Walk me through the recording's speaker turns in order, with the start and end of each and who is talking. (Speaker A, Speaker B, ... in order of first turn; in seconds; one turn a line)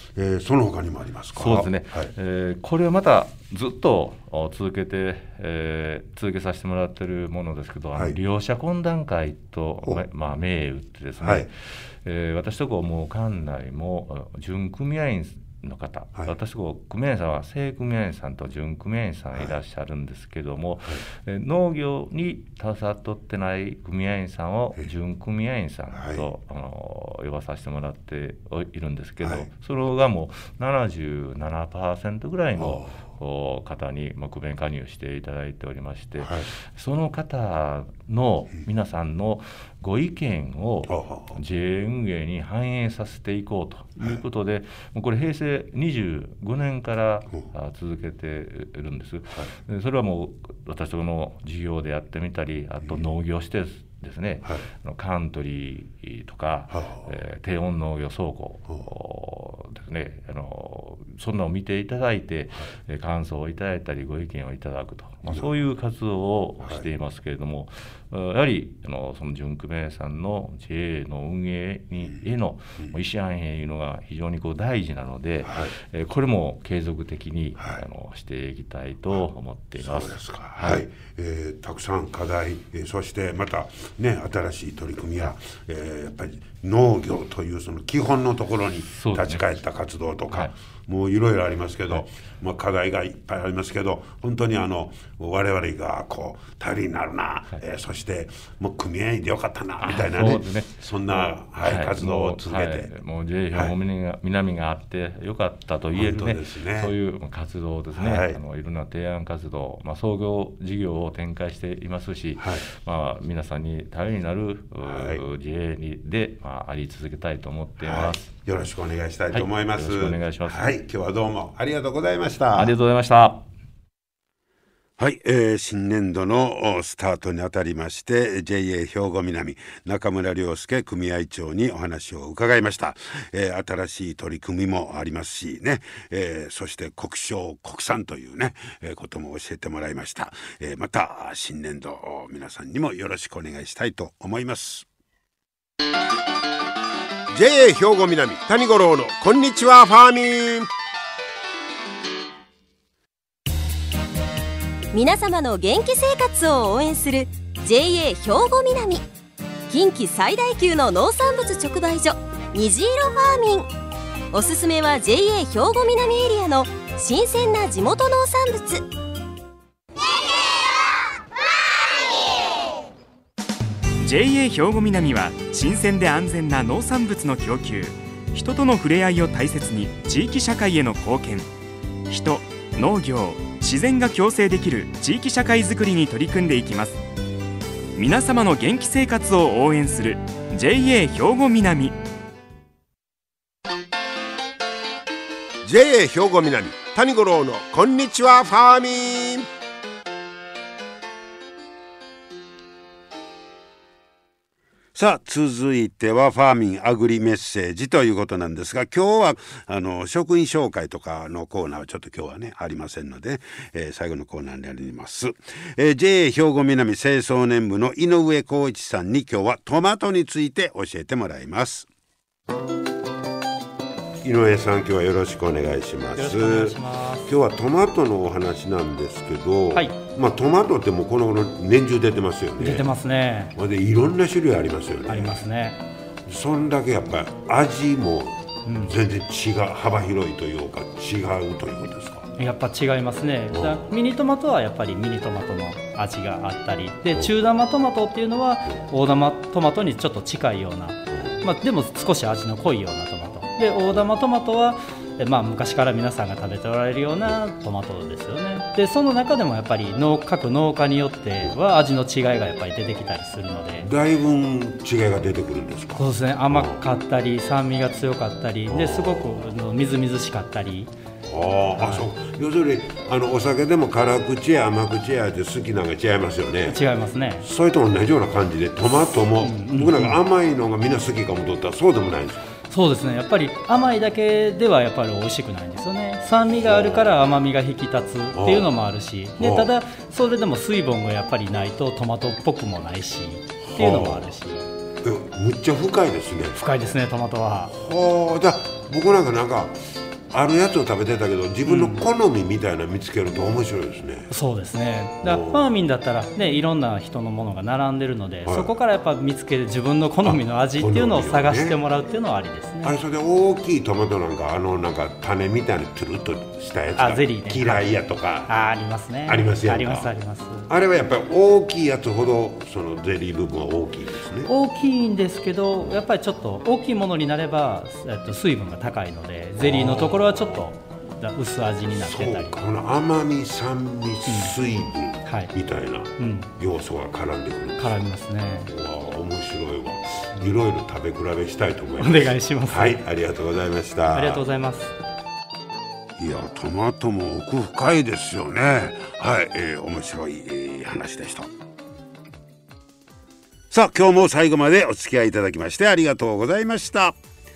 Speaker A: 0.1-2.1
Speaker B: 1.3-80.8
Speaker A: 11.2-11.5
Speaker A: 25.9-26.2
Speaker A: 29.2-29.5
Speaker A: 32.6-33.0
Speaker A: 36.2-36.5
Speaker A: 40.9-41.4
Speaker A: 56.7-57.1
Speaker A: 75.5-75.7
Speaker A: 79.8-102.9
Speaker B: 88.9-89.6
Speaker B: 99.8-118.3
Speaker A: 106.0-107.0
Speaker A: 107.9-108.4
Speaker A: 114.8-115.2
Speaker A: 117.8-122.8
Speaker B: 119.3-120.8
Speaker B: 122.5-123.5
Speaker A: 125.0-144.9
Speaker C: 147.3-150.7
Speaker D: 154.9-159.1
Speaker D: 159.7-163.7
Speaker D: 164.3-168.9
Speaker E: 174.0-181.5
Speaker E: 182.1-187.0
Speaker E: 187.9-192.0
Speaker C: 195.6-199.5
Speaker A: 204.9-221.9
Speaker A: 224.2-232.9
Speaker F: 226.2-227.3
Speaker F: 232.6-233.5
Speaker A: 233.6-235.5
Speaker F: 235.1-235.8
Speaker A: 236.3-242.3
Speaker F: 238.7-238.9
Speaker F: 242.4-263.9
Speaker A: 243.5-243.9
Speaker A: 263.8-266.8
Speaker F: 266.0-270.9
Speaker A: 268.7-269.6
Speaker A: 271.2-276.8
Speaker F: 271.8-272.1
Speaker F: 276.6-277.5
Speaker A: 277.4-282.5
Speaker F: 279.4-280.2
Speaker F: 282.7-294.7
Speaker A: 286.6-287.2
Speaker A: 288.3-288.7
Speaker A: 289.4-289.7
Speaker A: 293.6-294.4
Speaker A: 295.0-296.6
Speaker F: 296.6-297.7
Speaker A: 297.7-304.3
Speaker F: 301.6-302.1
Speaker F: 304.3-312.9
Speaker A: 305.2-305.7
Speaker A: 308.4-308.7
Speaker A: 310.2-311.8
Speaker A: 312.8-318.6
Speaker F: 317.0-317.8
Speaker F: 318.5-320.7
Speaker A: 319.3-320.1
Speaker A: 320.7-324.5
Speaker F: 324.5-332.6
Speaker A: 329.6-330.7
Speaker A: 331.9-338.0
Speaker F: 334.3-334.6
Speaker F: 335.3-335.5
Speaker F: 336.2-336.5
Speaker F: 337.8-338.7
Speaker A: 338.7-344.4
Speaker F: 342.0-343.0
Speaker F: 344.1-344.9
Speaker A: 346.2-351.5
Speaker A: 353.7-357.2